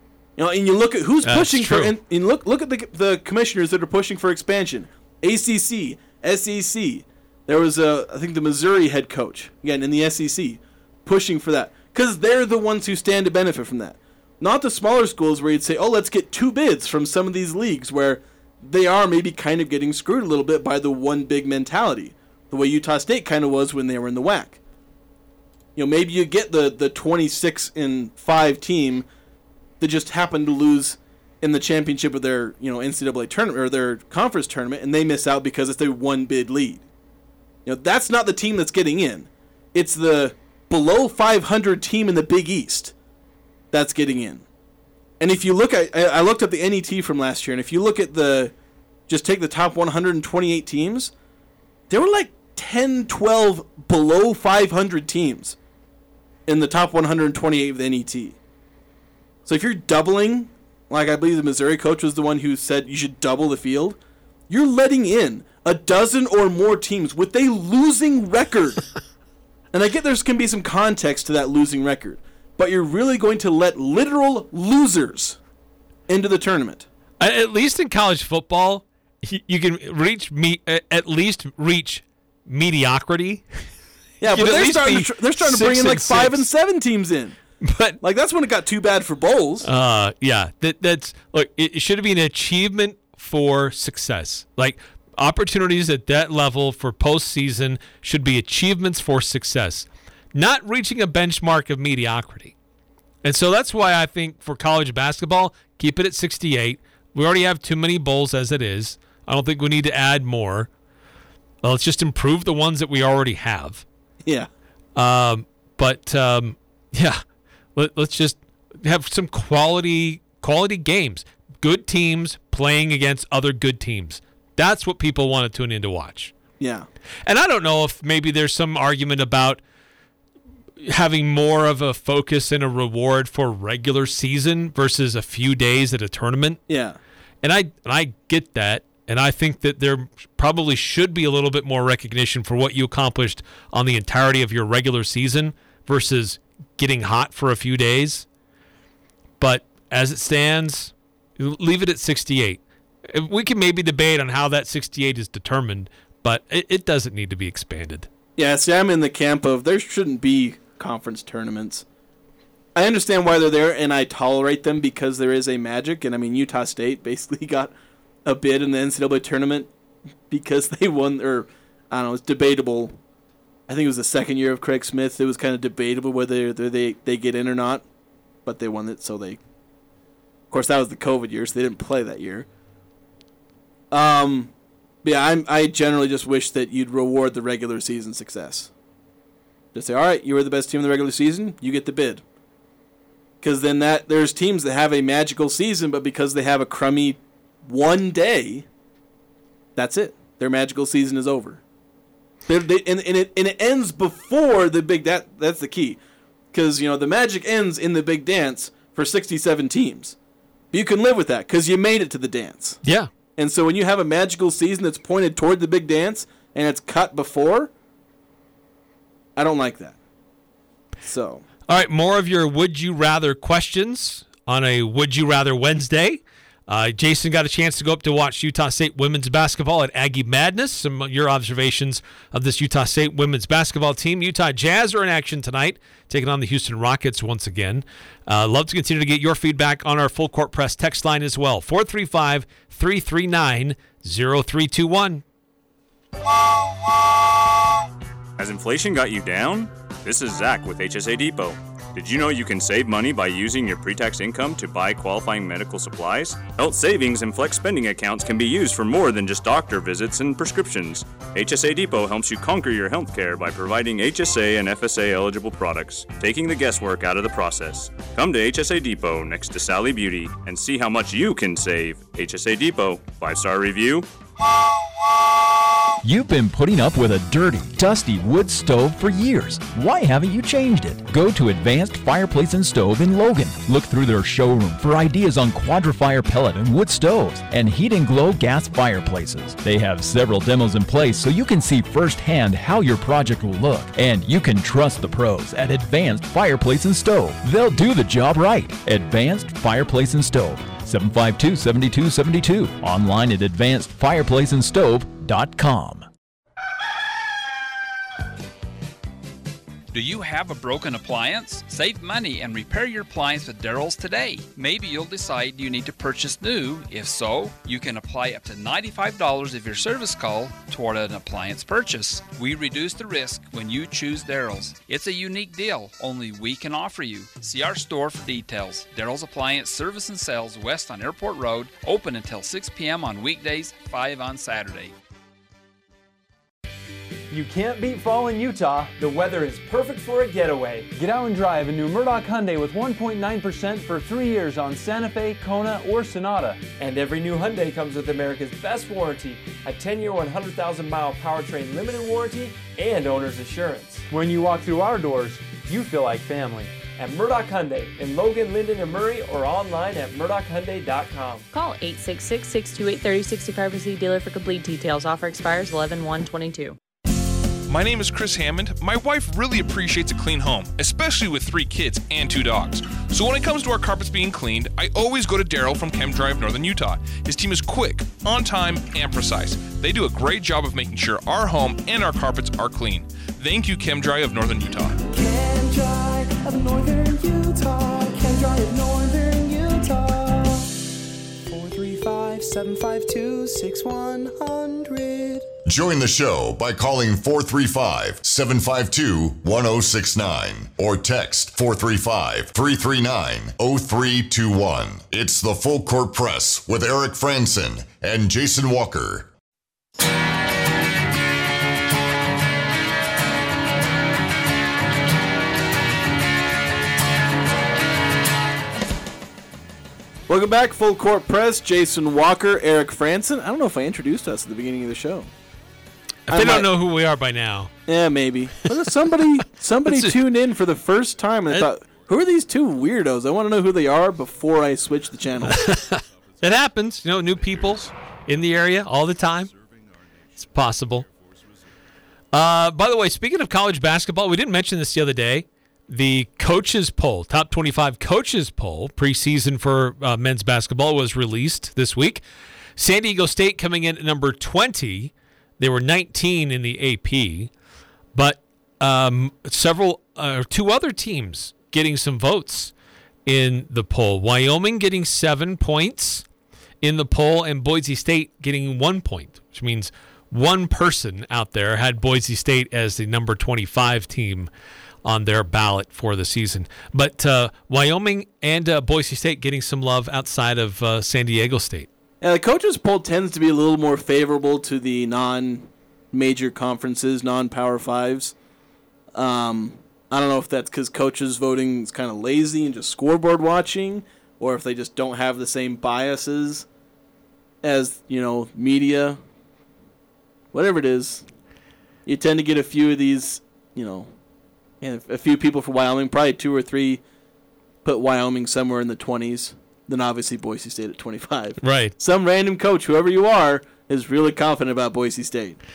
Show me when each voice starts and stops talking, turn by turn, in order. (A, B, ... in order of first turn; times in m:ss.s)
0:00.4-0:24.6 A
0:01.2-0:01.9 B
0:25.8-0:29.0 A
0:29.8-0:36.8 A
0:37.6-0:42.9 A
0:43.7-0:44.4 A
0:45.2-0:48.5 A
0:49.1-0:51.1 A
0:51.9-0:55.6 A
0:56.5-0:58.4 A
0:59.4-1:04.0 A
1:04.5-1:08.8 A
1:09.7-1:15.4 A
1:16.1-1:16.8 A
1:17.2-1:23.4 B
1:24.2-1:27.4 A
1:24.3-1:26.4 B
1:27.6-1:28.0 B
1:28.0-1:29.7 A
1:29.6-1:42.5 B
1:43.2-1:50.7 B
1:51.6-1:53.8 B
1:55.0-1:57.2 B
1:57.8-2:06.3 B
2:06.6-2:06.9 A
2:07.2-2:09.6 B
2:10.8-2:16.6 B
2:16.7-2:17.0 A
2:17.4-2:28.2 B
2:29.4-2:38.1 B
2:38.4-2:41.8 A
2:42.7-2:47.7 A
2:48.2-2:49.7 A
2:50.3-2:53.0 A
2:53.7-2:57.8 A
2:58.4-2:59.4 A
3:00.5-3:02.5 A
3:03.9-3:04.5 A
3:05.0-3:08.7 A
3:09.7-3:12.2 A
3:13.4-3:18.6 A
3:19.8-3:21.6 A
3:22.5-3:26.0 A
3:26.5-3:30.2 A
3:30.7-3:32.8 A
3:32.8-3:33.1 B
3:33.4-3:37.7 A
3:39.4-3:40.0 A
3:41.0-3:41.4 A
3:41.7-4:05.2 B
4:08.4-4:34.0 C
4:36.0-5:06.1 D
5:09.9-5:34.9 E
5:37.3-6:01.4 F
6:01.5-6:06.8 G
6:07.7-6:25.0 H
6:25.1-6:30.7 I
6:31.5-6:35.5 I
6:35.6-6:49.3 J
7:00.3-7:05.3 A
7:06.3-7:07.7 B
7:06.3-7:06.7 A
7:07.8-7:15.6 A
7:09.9-7:10.1 B
7:15.5-7:19.5 B
7:20.4-7:21.1 B
7:22.3-7:32.2 B
7:32.8-7:37.5 B
7:38.1-7:42.7 B
7:43.2-7:46.2 B
7:46.8-7:54.5 B
7:55.0-8:01.9 B
8:02.2-8:08.3 A
8:09.1-8:16.6 A
8:17.6-8:19.2 A
8:20.5-8:21.2 A
8:22.0-8:24.1 A
8:24.8-8:27.0 A
8:27.8-8:35.6 A
8:31.6-8:31.9 B